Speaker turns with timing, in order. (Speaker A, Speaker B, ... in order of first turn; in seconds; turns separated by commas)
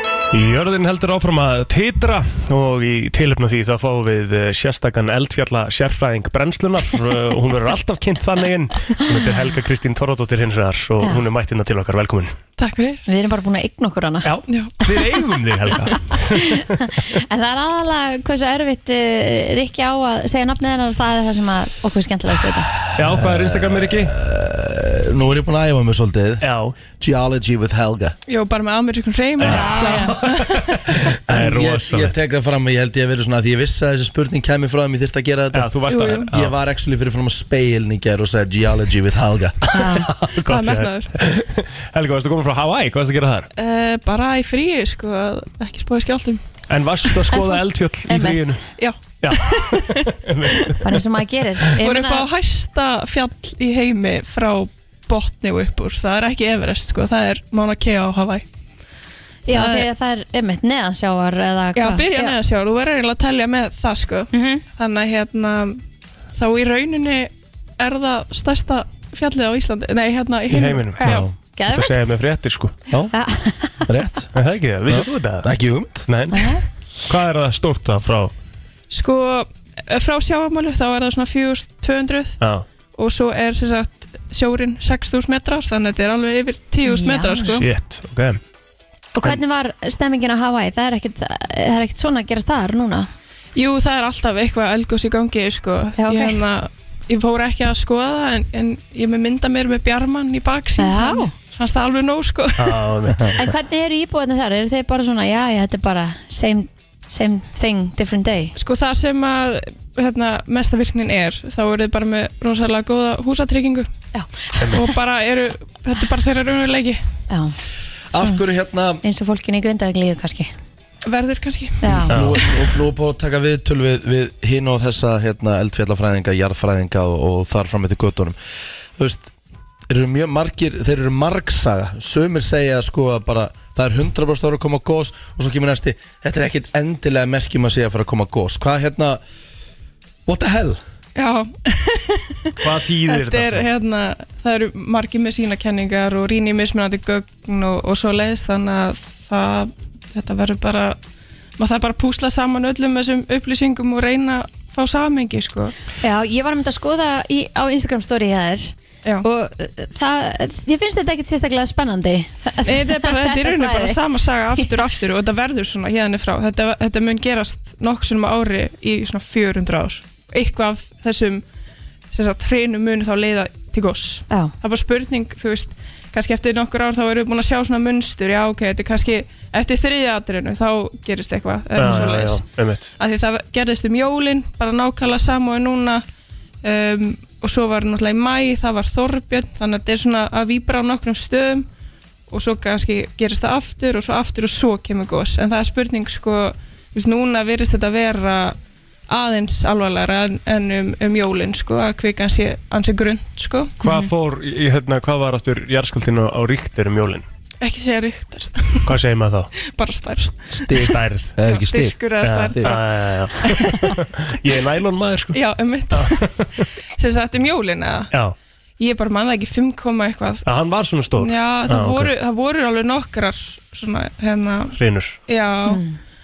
Speaker A: 0.3-12.3, Speaker B: 12.6-13.0, Speaker C: 13.1-14.3, Speaker A: 14.2-16.7, Speaker B: 14.5-14.9, Speaker C: 16.4-22.7, Speaker A: 22.9-24.1, Speaker D: 23.0-26.5, Speaker A: 26.4-26.7, Speaker D: 27.0-28.1, Speaker B: 28.3-30.6, Speaker A: 29.4-32.1, Speaker C: 29.4-30.2, Speaker D: 31.3-35.7, Speaker A: 35.5-36.5, Speaker B: 35.9-36.3, Speaker D: 36.3-39.6, Speaker A: 39.7-43.5, Speaker C: 39.7-40.1, Speaker B: 40.5-41.1, Speaker B: 43.5-46.4, Speaker A: 46.7-48.6, Speaker C: 47.3-48.6, Speaker B: 48.8-50.7, Speaker A: 49.2-50.8, Speaker C: 50.8-52.3, Speaker B: 51.8-58.4, Speaker C: 59.5-62.4, Speaker B: 59.5-59.9, Speaker B: 61.8-65.8, Speaker C: 64.3-64.6, Speaker B: 66.3-71.2, Speaker A: 70.5-71.0, Speaker D: 71.0-71.3, Speaker C: 71.0-72.1, Speaker A: 71.7-72.7, Speaker C: 73.1-73.8, Speaker D: 73.8-74.3, Speaker A: 74.3-75.5, Speaker D: 74.9-76.1, Speaker A: 76.1-78.3, Speaker C: 76.3-76.6, Speaker B: 78.9-82.4, Speaker A: 82.4-82.7, Speaker B: 82.9-87.7, Speaker C: 86.8-87.6, Speaker A: 87.5-88.4, Speaker C: 89.1-93.1, Speaker B: 93.5-102.8, Speaker C: 96.0-96.4, Speaker C: 100.8-101.3, Speaker A: 102.6-103.4, Speaker C: 103.4-108.5, Speaker B: 108.5-113.9, Speaker C: 114.1-114.9, Speaker B: 114.7-117.0, Speaker C: 117.3-117.5, Speaker D: 118.1-119.0, Speaker C: 118.2-118.4, Speaker C: 119.0-120.5, Speaker B: 121.1-122.0, Speaker C: 121.8-122.1, Speaker A: 122.1-122.4, Speaker D: 122.1-128.3, Speaker D: 129.0-129.3, Speaker D: 129.9-139.2, Speaker D: 140.3-140.8, Speaker B: 141.1-151.0, Speaker A: 142.6-143.7, Speaker B: 151.6-155.7, Speaker C: 156.0-164.0, Speaker B: 162.6-171.4, Speaker B: 172.1-182.5, Speaker A: 181.8-182.9, Speaker C: 181.9-182.1, Speaker B: 183.0-186.0, Speaker B: 186.6-191.7, Speaker B: 192.3-198.6, Speaker B: 199.1-203.7, Speaker A: 203.8-207.2, Speaker C: 203.8-204.1, Speaker B: 207.6-208.9, Speaker A: 208.8-209.5, Speaker B: 209.6-210.9, Speaker D: 210.5-212.7, Speaker A: 210.8-211.4, Speaker B: 211.5-212.8, Speaker A: 212.2-215.4, Speaker B: 213.4-213.9, Speaker B: 215.3-216.2, Speaker A: 215.9-216.7, Speaker B: 217.0-218.1, Speaker A: 218.1-218.3, Speaker B: 218.8-220.4, Speaker A: 220.4-222.1, Speaker B: 221.2-225.8, Speaker A: 224.8-225.2, Speaker C: 225.7-225.9